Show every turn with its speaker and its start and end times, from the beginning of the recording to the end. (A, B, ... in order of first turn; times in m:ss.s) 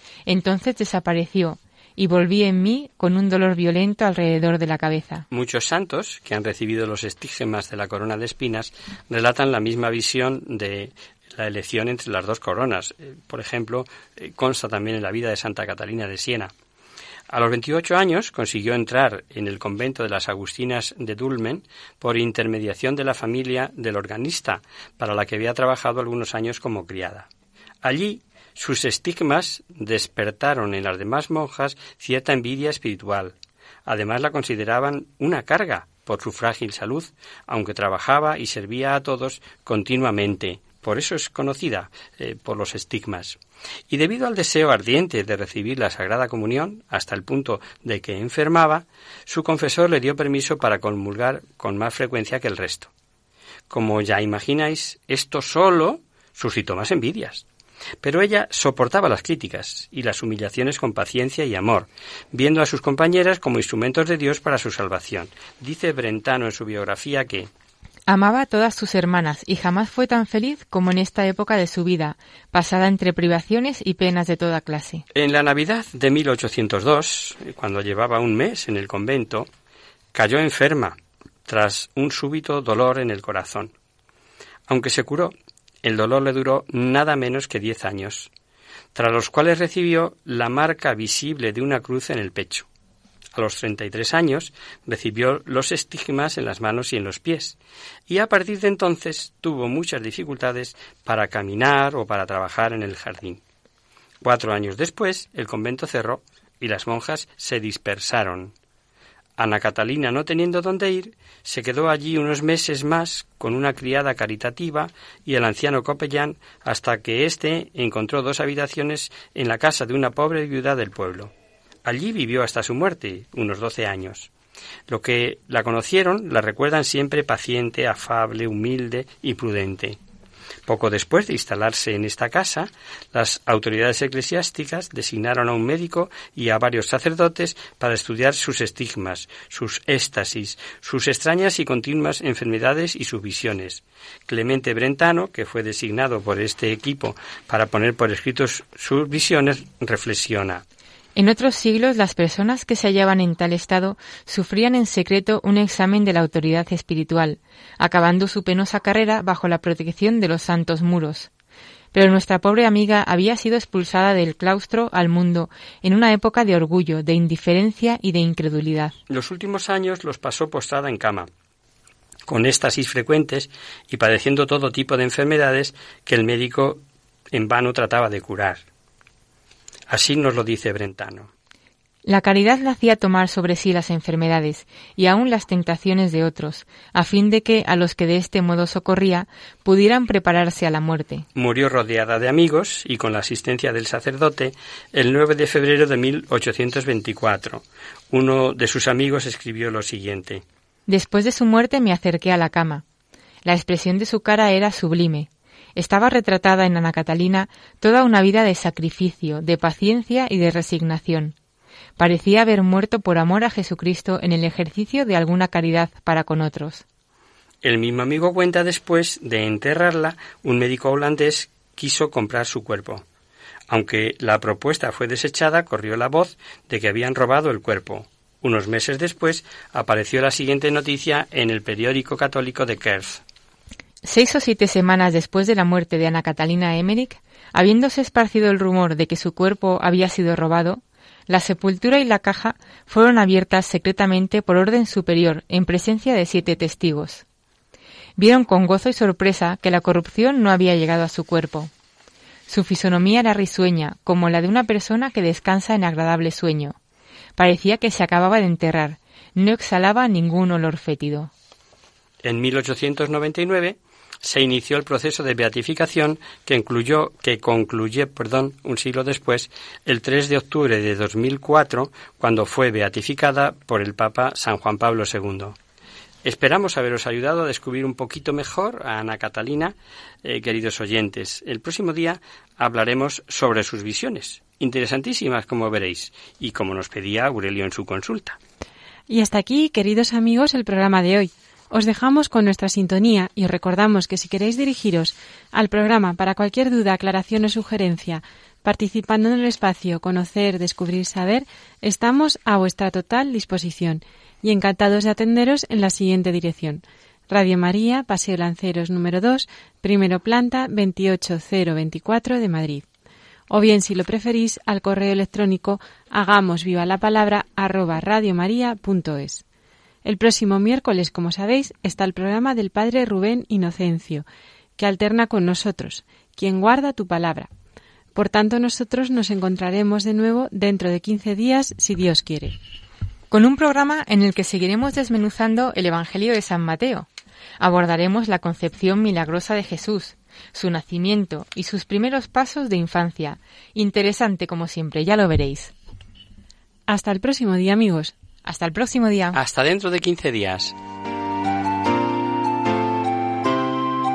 0:00.3-0:05.3 A
0:05.3-0:16.5 B
0:17.3-0:27.3 B
0:27.8-0:43.4 B
0:43.9-0:52.9 B
0:53.7-0:57.5 B
0:58.0-1:07.5 B
1:08.1-1:15.0 A
1:15.1-1:19.5 B
1:20.1-1:23.7 B
1:24.7-1:28.3 B
1:29.0-1:32.7 B
1:33.3-1:37.6 B
1:38.1-1:43.4 B
1:44.2-1:48.6 B
1:49.4-2:01.3 B
2:01.8-2:04.3 B
2:04.9-2:10.0 B
2:10.7-2:30.6 B
2:31.2-2:41.3 A
2:41.9-2:49.0 A
2:49.1-2:51.3 B
2:52.3-2:56.8 B
2:57.3-2:58.6 B
2:59.9-3:01.3 B
3:02.0-3:11.3 A
3:11.4-3:20.4 B
3:20.9-3:22.8 A
3:23.4-3:31.4 A
3:32.0-3:36.8 A
3:37.6-3:43.0 B
3:43.7-3:53.2 B
3:54.0-4:07.2 A
4:08.2-4:11.7 A
4:12.5-4:16.8 A
4:17.4-4:21.3 A
4:22.2-4:35.6 B
4:36.2-4:48.4 B
4:49.1-5:12.8 C
5:13.5-5:19.4 C
5:20.0-5:24.3 C
5:24.8-5:27.5 C
5:28.1-5:32.6 C
5:33.3-5:37.1 A
5:37.6-5:45.7 A
5:46.9-5:48.1 C
5:48.4-5:49.4 A
5:49.3-5:50.8 B